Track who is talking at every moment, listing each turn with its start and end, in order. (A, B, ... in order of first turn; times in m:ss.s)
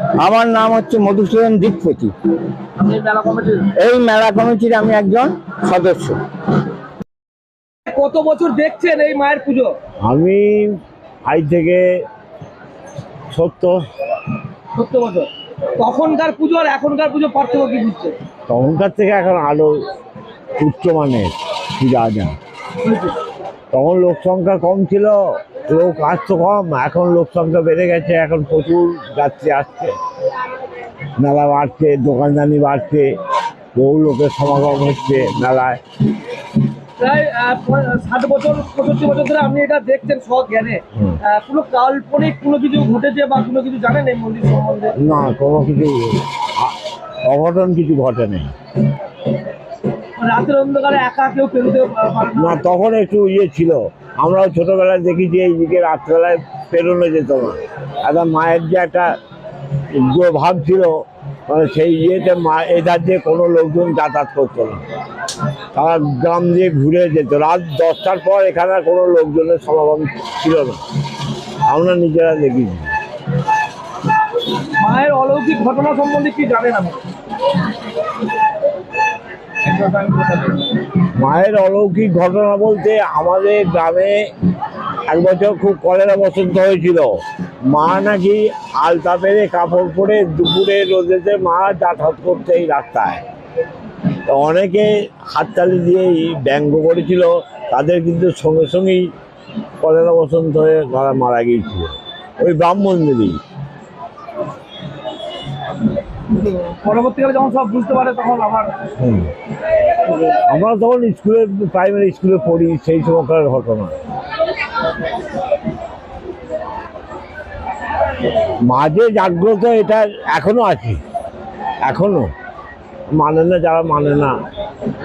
0:00.2-0:02.1 A
0:02.8-0:03.7 B
0:03.8-0:06.2 A
0:07.9-0:09.7 B
0:10.0-0:11.8 C
0:13.3-0:13.8 C
0:14.8-0:18.2 B
0:18.5-0:19.7 C
0:20.6-0:22.4 C
0:22.8-0:23.2 B
0:23.7-0:30.0 C
0:31.2-0:33.1 C
0:33.8-0:35.8 C
0:37.0-0:45.0 B
0:45.0-0:48.5 C
0:50.2-0:52.6 B
0:52.4-0:59.1 C
0:59.9-1:04.8 C
1:05.8-1:10.8 C
1:11.7-1:12.9 C
1:14.8-1:17.0 B
1:19.6-1:20.8 B
1:21.2-1:24.2 C
1:25.1-1:27.1 C
1:27.7-1:33.2 C
1:34.3-1:39.1 C
1:39.8-1:43.4 C
1:46.3-1:48.8 B
1:49.0-1:49.3 C
1:50.5-1:53.9 C
1:58.7-2:01.0 C
2:01.8-2:02.3 C
2:03.1-2:04.4 C